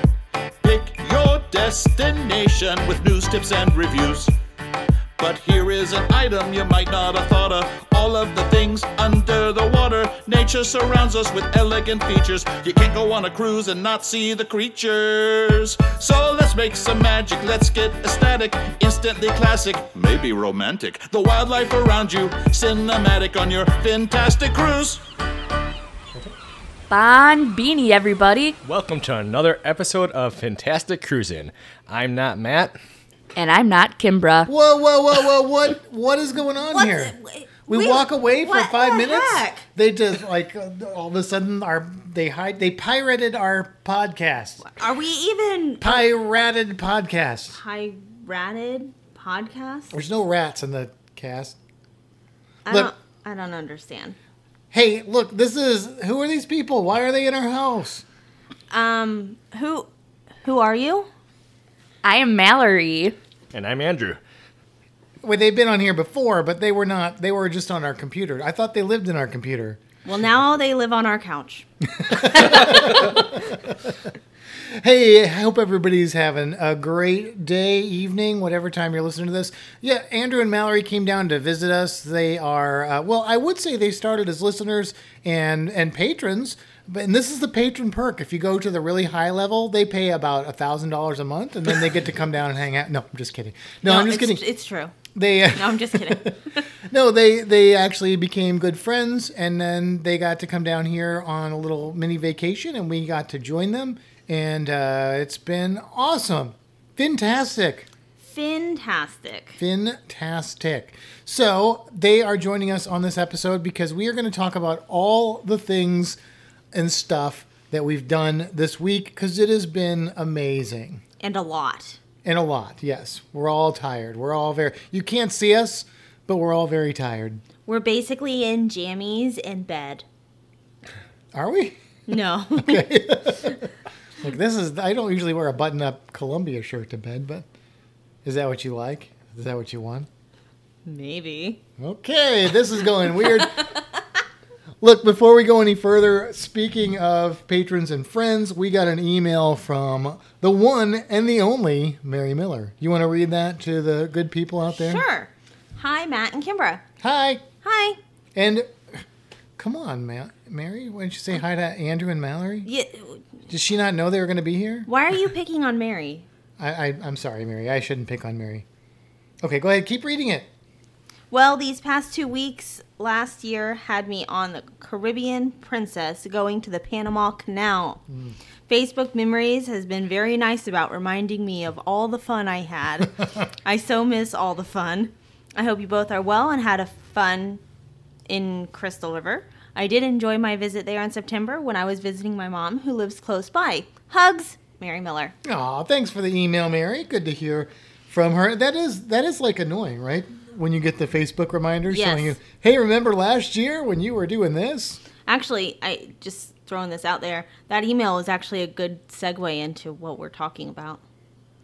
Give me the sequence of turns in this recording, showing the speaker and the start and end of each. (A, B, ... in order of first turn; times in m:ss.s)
0:00.6-0:04.4 A
0:05.2-0:25.0 A
0:26.9-0:28.6 B
0:28.6-0:32.8 C
0:33.4-0:34.5 B
0:34.5-0:37.2 D
0:36.7-0:39.7 E
0:37.7-0:44.6 D
0:44.6-0:46.1 E
0:45.8-0:47.6 D
0:47.5-0:50.0 E
0:49.9-0:51.6 D
0:52.6-0:54.2 E
0:54.7-0:58.0 D
0:58.7-0:59.9 E
1:00.4-1:01.1 E
1:02.0-1:03.2 B
1:03.5-1:04.2 C
1:05.2-1:09.8 D
1:10.0-1:11.7 E
1:12.0-1:14.0 D
1:14.6-1:34.4 D
1:33.8-1:35.0 E
1:35.1-1:47.9 D
1:35.5-1:36.7 E
1:48.2-1:49.6 E
1:49.6-1:56.2 D
1:56.7-2:01.0 D
2:01.2-2:02.0 E
2:02.2-2:07.4 D
2:07.7-2:10.0 E
2:11.3-2:11.8 D
2:12.1-2:12.9 E
2:12.6-2:13.7 D
2:14.2-2:17.5 D
2:18.2-2:20.1 D
2:20.9-2:21.6 E
2:21.8-2:23.7 D
2:24.8-2:35.0 D
2:34.7-2:36.8 E
2:37.0-2:37.4 D
2:37.6-2:38.0 E
2:38.4-2:39.0 D
2:39.6-2:42.7 D
2:42.6-2:43.3 E
2:43.5-2:44.9 D
2:44.9-2:46.3 E
2:46.6-2:48.6 D
2:49.4-2:50.5 D
2:51.3-2:58.0 E
2:58.1-2:58.4 D
2:58.7-3:07.6 E
3:08.3-3:15.3 E
3:15.4-3:25.0 D
3:21.9-3:22.4 E
3:25.3-3:31.0 E